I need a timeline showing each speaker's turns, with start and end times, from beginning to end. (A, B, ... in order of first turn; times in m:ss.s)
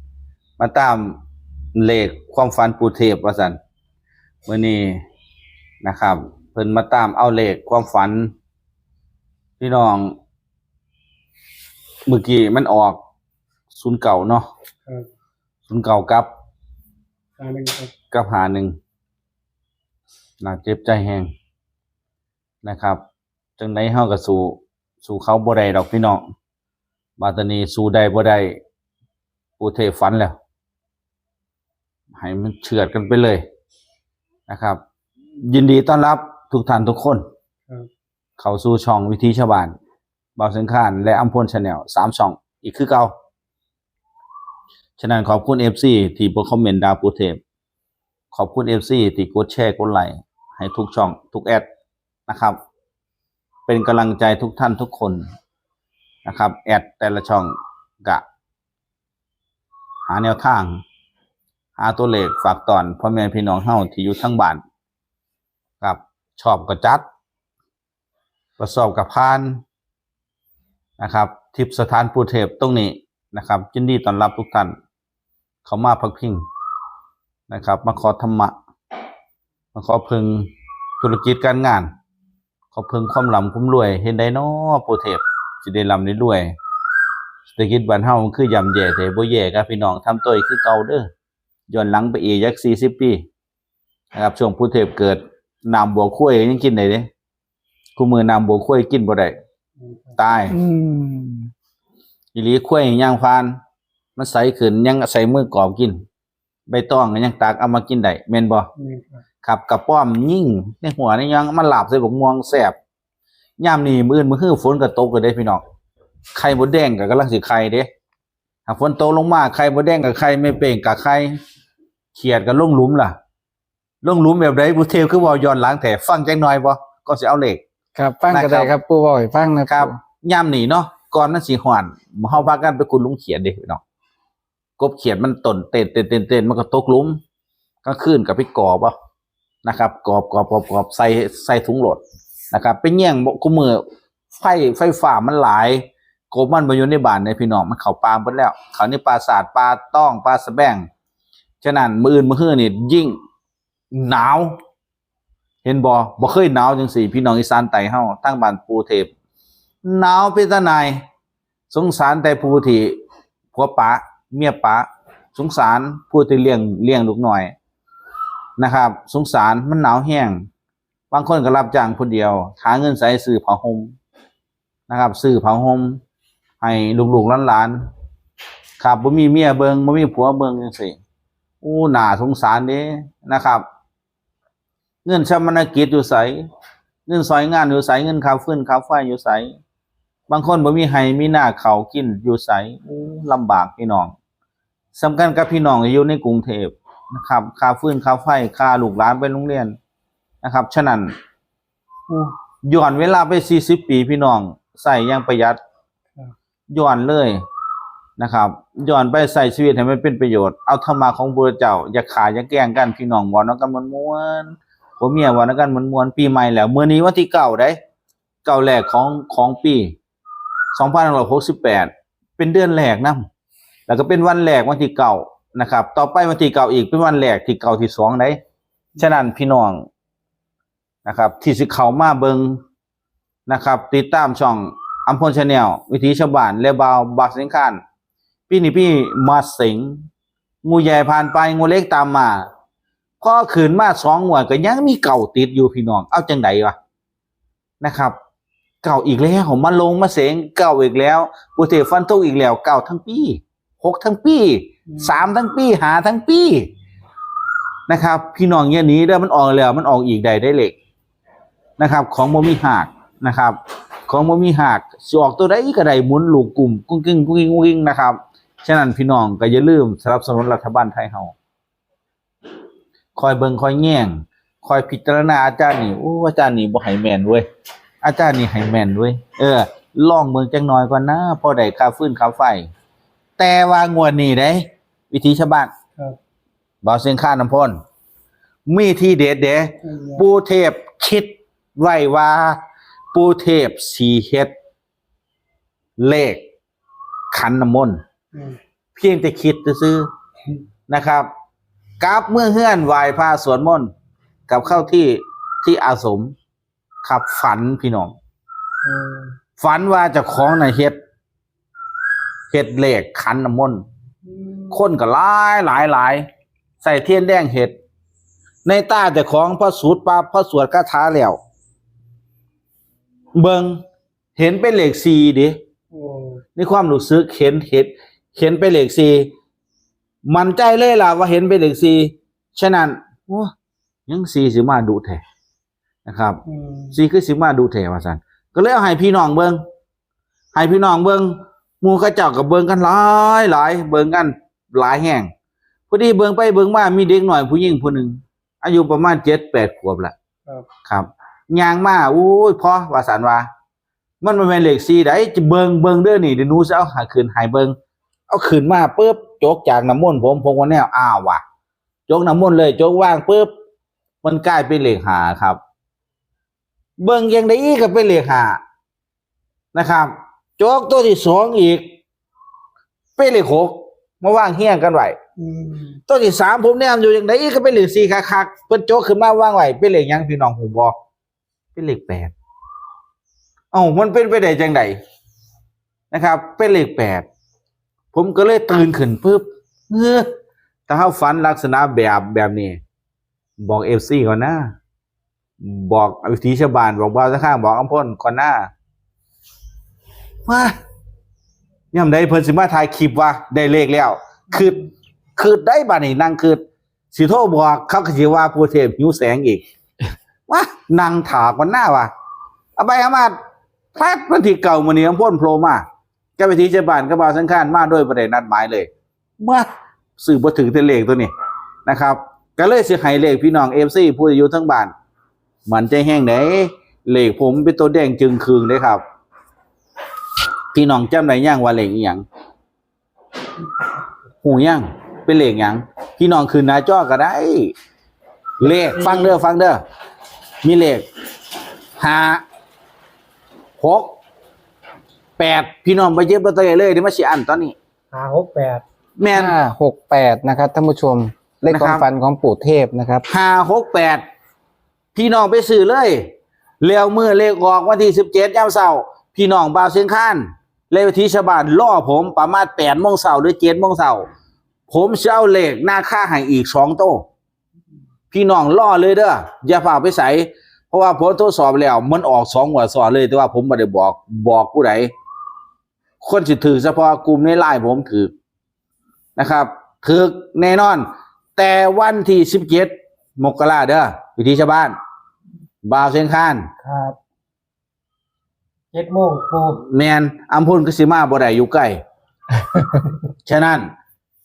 0:00.6-0:01.2 A
0:01.8-0:03.6 A
0:04.5-0:05.0 A
0:05.8-0:08.3 A
0:09.6-0:10.2 A
0:12.1-0:13.0 A
0:13.8-0:14.5 A
0:15.7-0:16.3 A
0:17.4-0:17.9 B
0:18.1-0:18.8 A
0:20.4-0:21.3 A
0:22.6-0:23.0 A
0:23.6-0:26.2 A
0:27.2-0:28.6 A
0:29.6-0:30.4 A
0:32.2-0:33.4 A
0:34.5-0:34.8 A
0:35.4-0:37.2 A
0:38.4-0:39.7 A
0:40.4-0:43.1 A
0:45.0-0:47.4 A
0:48.3-0:51.7 A
0:52.3-0:52.6 A
0:53.7-0:55.2 A
0:56.3-0:58.2 A
1:00.1-1:00.8 A
1:01.8-1:04.6 A
1:05.8-1:07.0 A
1:08.6-1:09.6 A
1:11.0-1:14.8 A
1:15.7-1:16.4 A
1:17.5-1:18.6 A
1:19.8-1:20.5 A
1:21.0-1:21.9 A
1:22.7-1:26.6 A
1:27.5-1:31.1 A
1:31.7-1:33.2 A
1:34.1-1:37.1 A
1:38.0-1:39.3 A
1:39.8-1:40.2 B
1:40.2-1:40.5 A
1:40.5-1:41.5 C
1:42.4-1:43.6 A
1:44.2-1:46.0 A
1:46.7-1:48.7 A
1:48.8-1:49.2 B
1:49.4-1:52.8 A
1:53.6-1:55.6 A
1:56.4-1:57.9 A
1:58.7-2:01.4 A
2:02.2-2:03.2 A
2:04.0-2:07.6 A
2:08.0-2:10.0 C
2:08.3-2:08.7 A
2:09.7-2:13.8 A
2:14.8-2:17.2 A
2:17.8-2:18.9 A
2:19.6-2:23.8 A
2:24.3-2:30.9 A
2:31.6-2:33.2 A
2:33.9-2:34.6 A
2:35.6-2:39.1 A
2:39.8-2:41.0 A
2:41.7-2:43.0 A
2:43.5-2:47.5 A
2:48.6-2:50.5 A
2:51.1-2:54.0 A
2:54.9-2:56.0 A
2:56.6-2:57.8 A
2:58.8-3:01.0 A
3:01.6-3:03.6 A
3:05.1-3:06.4 A
3:07.1-3:09.6 A
3:10.3-3:14.1 A
3:15.0-3:19.8 A
3:20.4-3:21.1 A
3:22.1-3:22.4 B
3:22.6-3:25.6 A
3:26.7-3:27.4 A
3:28.2-3:37.8 A
3:38.4-3:39.9 A
3:40.8-3:43.3 A
3:43.9-3:48.4 A
3:49.0-3:49.8 A
3:51.1-3:52.6 A
3:53.5-3:57.8 A
3:58.5-4:00.1 A
4:00.6-4:02.5 A
4:03.2-4:06.8 A
4:07.8-4:08.2 A
4:08.8-4:16.7 A
4:14.9-4:15.2 B
4:17.9-4:20.8 A
4:21.8-4:31.3 A
4:33.2-4:37.4 A
4:38.0-4:42.7 A
4:43.4-4:45.7 A
4:46.8-4:47.8 A
4:48.7-4:52.6 A
4:49.8-4:50.2 B
4:53.1-4:54.5 A
4:56.0-4:56.4 A
4:57.3-4:58.0 A
4:59.0-5:00.1 A
5:00.9-5:01.3 A
5:02.0-5:03.9 A
5:04.5-5:06.3 A
5:07.0-5:08.2 A
5:08.8-5:09.4 B
5:09.6-5:11.0 A
5:12.5-5:13.8 A
5:14.2-5:14.8 B
5:14.7-5:16.3 A
5:16.8-5:17.8 A
5:18.7-5:21.4 A
5:23.4-5:23.8 A
5:24.4-5:25.6 A
5:25.9-5:26.4 B
5:26.6-5:29.3 A
5:30.3-5:33.5 A
5:34.1-5:35.2 A
5:36.1-5:36.4 A
5:36.5-5:37.0 B
5:36.9-5:39.6 A
5:40.6-5:45.3 A
5:45.9-5:50.1 A
5:50.9-5:53.5 A
5:54.2-5:57.7 A
5:58.3-6:01.4 A
6:02.1-6:03.5 A
6:04.2-6:05.6 A
6:07.0-6:08.6 A
6:09.7-6:11.9 A
6:13.2-6:15.2 A
6:15.4-6:16.0 B
6:16.1-6:20.9 A
6:21.8-6:22.3 A
6:23.7-6:25.0 A
6:26.1-6:27.3 A
6:28.1-6:30.3 A
6:30.9-6:32.8 A
6:33.6-6:34.7 A
6:35.6-6:38.7 A
6:40.5-6:40.7 A
6:41.9-6:44.8 A
6:45.4-6:46.6 A
6:47.1-6:49.6 A
6:50.5-6:52.1 A
6:52.8-6:53.4 A
6:54.0-6:55.8 A
6:56.4-6:58.9 A
6:59.4-6:59.7 A
7:00.2-7:01.3 A
7:01.9-7:04.9 A
7:05.7-7:09.0 A
7:10.7-7:12.2 A
7:14.4-7:17.8 A
7:18.6-7:19.8 A
7:18.7-7:19.3 B
7:20.6-7:21.1 A
7:22.0-7:22.4 A
7:23.8-7:24.1 A
7:25.4-7:27.8 A
7:28.1-7:28.8 B
7:29.2-7:29.6 A
7:29.3-7:33.3 C
7:31.7-7:32.0 A
7:33.3-7:34.2 A
7:35.1-7:44.3 A
7:44.9-7:47.2 A
7:48.3-7:55.1 A
7:56.2-7:58.3 A
7:59.4-8:05.0 A
8:05.8-8:06.7 A
8:06.8-8:07.2 B
8:08.9-8:09.8 B
8:09.8-8:12.0 A
8:13.5-8:13.9 A